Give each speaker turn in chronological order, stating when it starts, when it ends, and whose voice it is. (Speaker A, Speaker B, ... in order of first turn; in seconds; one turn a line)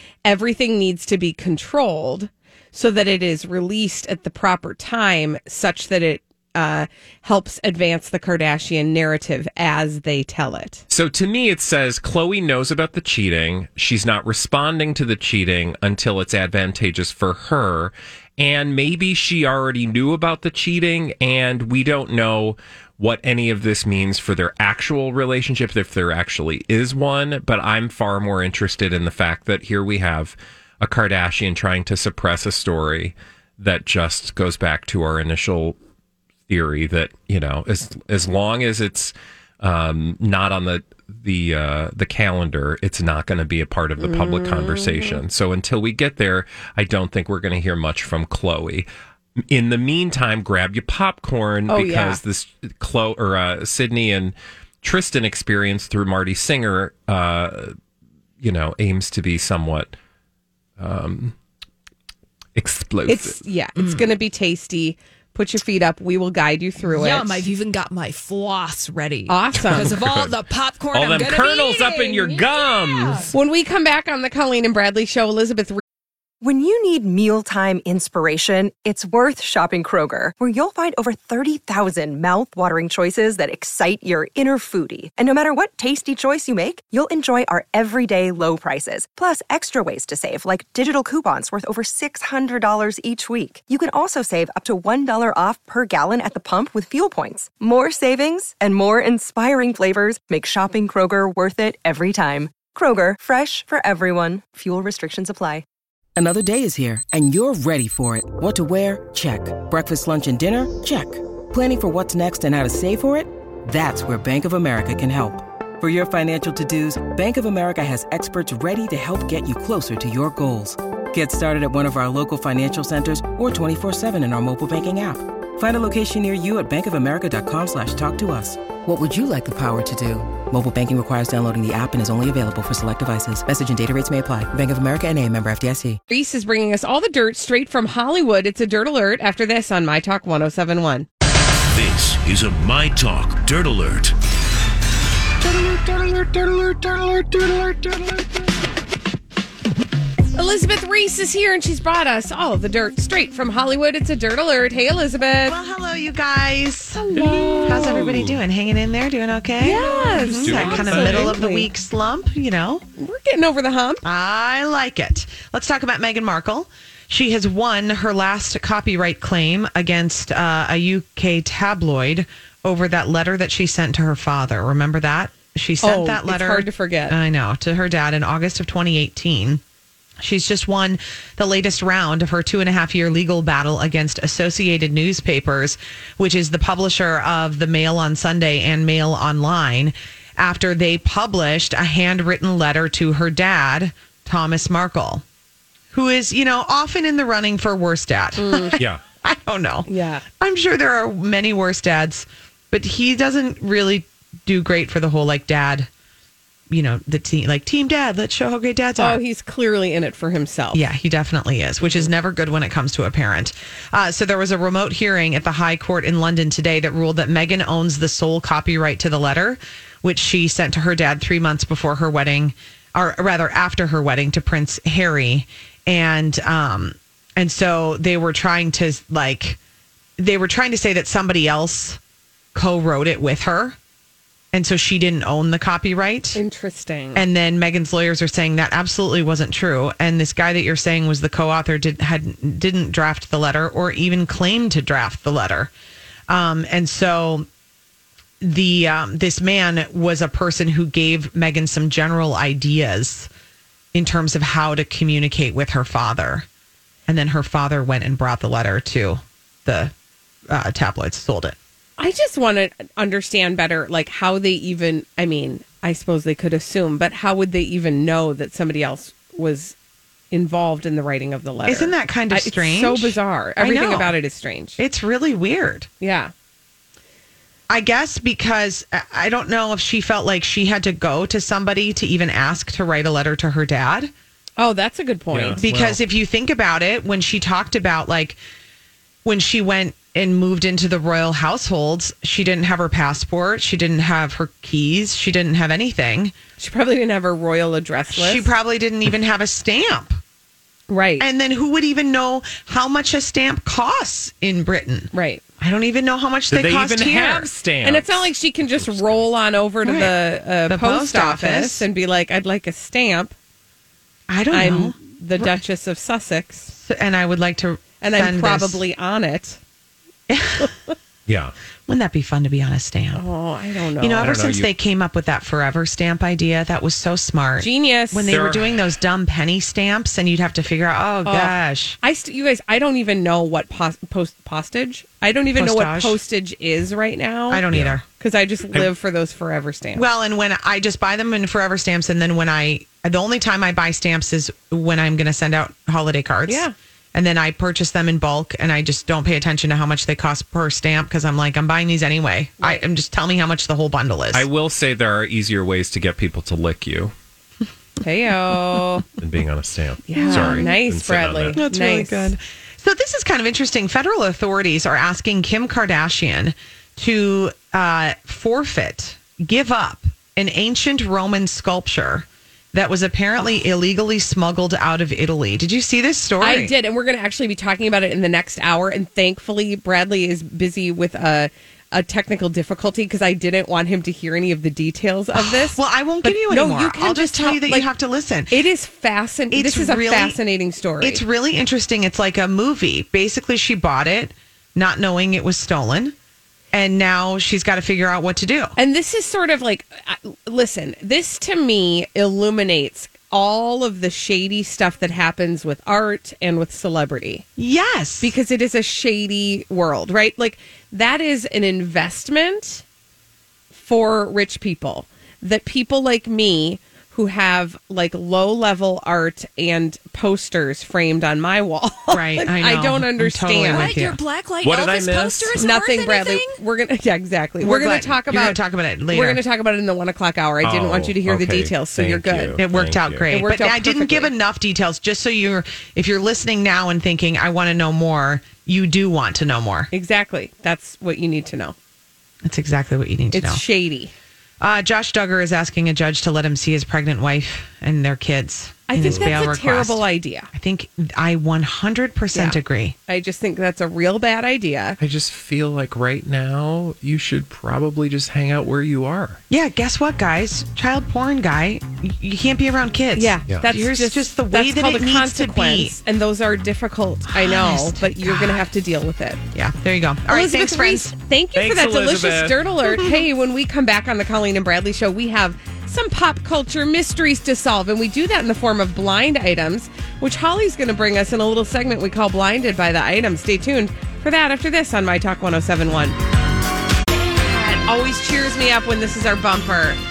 Speaker A: 0.2-10.8
Speaker B: 10.9-35.8
Speaker B: 36.5-48.9
Speaker A: 44.0-45.2
Speaker B: 49.5-57.7
Speaker A: 51.7-52.2
Speaker B: 58.4-59.9
Speaker B: 60.8-61.3
Speaker B: 62.5-63.4
Speaker A: 63.1-67.4
Speaker C: 63.8-64.1
Speaker C: 66.8-73.3
Speaker A: 69.3-69.9
Speaker B: 69.7-70.3
Speaker B: 70.9-73.3
Speaker A: 73.3-75.8
Speaker D: 76.4-105.6
Speaker E: 106.2-136.0
Speaker A: 136.1-141.1
Speaker F: 141.7-144.1
Speaker B: 145.4-148.3
Speaker A: 150.3-155.6
Speaker G: 155.4-162.8
Speaker A: 156.9-158.0
Speaker B: 157.1-158.4
Speaker A: 159.6-161.7
Speaker B: 160.2-161.4
Speaker A: 163.0-164.0
Speaker G: 164.0-179.6
Speaker A: 175.8-177.2
Speaker G: 180.2-195.2
Speaker G: 195.9-199.9
Speaker A: 198.4-198.8
Speaker A: 199.9-200.2
Speaker G: 200.4-205.9
Speaker G: 206.7-209.2
Speaker A: 209.0-210.8
Speaker G: 210.7-229.6
Speaker G: 230.2-232.0
Speaker G: 232.5-233.8
Speaker G: 234.5-236.4
Speaker A: 236.3-237.2
Speaker G: 237.1-245.7
Speaker G: 246.3-247.5
Speaker G: 248.4-253.3
Speaker G: 253.9-256.5
Speaker G: 257.1-259.9
Speaker G: 260.5-261.6
Speaker A: 262.0-269.8
Speaker A: 270.3-274.8
Speaker G: 271.6-274.1
Speaker G: 274.8-275.9
Speaker A: 276.0-276.3
Speaker G: 277.7-284.1
Speaker A: 284.6-285.6
Speaker B: 285.3-286.0
Speaker G: 285.6-288.4
Speaker G: 289.2-296.3
Speaker A: 296.6-298.5
Speaker G: 298.1-300.2
Speaker A: 300.9-301.2
Speaker G: 301.2-307.5
Speaker A: 305.1-305.4
Speaker B: 306.5-309.2
Speaker A: 307.8-313.3
Speaker G: 309.8-311.9
Speaker G: 314.3-315.6
Speaker A: 314.5-316.7
Speaker G: 316.7-318.8
Speaker A: 318.0-319.6
Speaker G: 320.3-320.7
Speaker B: 321.3-321.5
Speaker G: 321.9-323.2
Speaker A: 323.1-324.4
Speaker G: 324.0-332.0
Speaker B: 324.2-324.7
Speaker A: 327.6-328.3
Speaker B: 328.3-328.8
Speaker A: 331.2-337.6
Speaker G: 335.5-336.2
Speaker G: 337.5-338.0
Speaker B: 337.7-338.0
Speaker A: 338.2-340.0
Speaker G: 339.9-354.5
Speaker A: 346.5-346.7
Speaker B: 354.3-357.1
Speaker A: 358.0-359.0
Speaker B: 359.2-361.6
Speaker A: 360.1-362.4
Speaker G: 360.2-360.7
Speaker G: 361.5-376.7
Speaker A: 376.4-387.9
Speaker G: 385.3-388.7
Speaker A: 388.5-391.2
Speaker G: 389.5-390.4
Speaker G: 391.0-396.1
Speaker G: 396.7-398.8
Speaker A: 398.8-407.4
Speaker G: 407.6-408.3
Speaker A: 408.2-412.8
Speaker A: 413.7-423.9
Speaker G: 422.1-424.2
Speaker C: 423.7-426.6
Speaker B: 424.6-425.6
Speaker A: 425.6-428.6
Speaker G: 427.6-429.4
Speaker A: 429.1-432.6
Speaker B: 430.6-433.3
Speaker G: 432.6-439.9
Speaker A: 433.3-434.3
Speaker A: 439.9-441.8
Speaker G: 442.4-443.6
Speaker A: 443.3-444.1
Speaker G: 444.6-452.9
Speaker A: 448.9-450.5
Speaker B: 449.0-449.4
Speaker A: 452.3-455.0
Speaker B: 455.0-459.4
Speaker G: 459.5-466.0
Speaker A: 463.1-469.4
Speaker G: 467.3-468.6
Speaker G: 469.5-471.1
Speaker A: 470.3-486.2
Speaker B: 471.6-472.6
Speaker G: 472.9-473.2
Speaker A: 487.3-490.0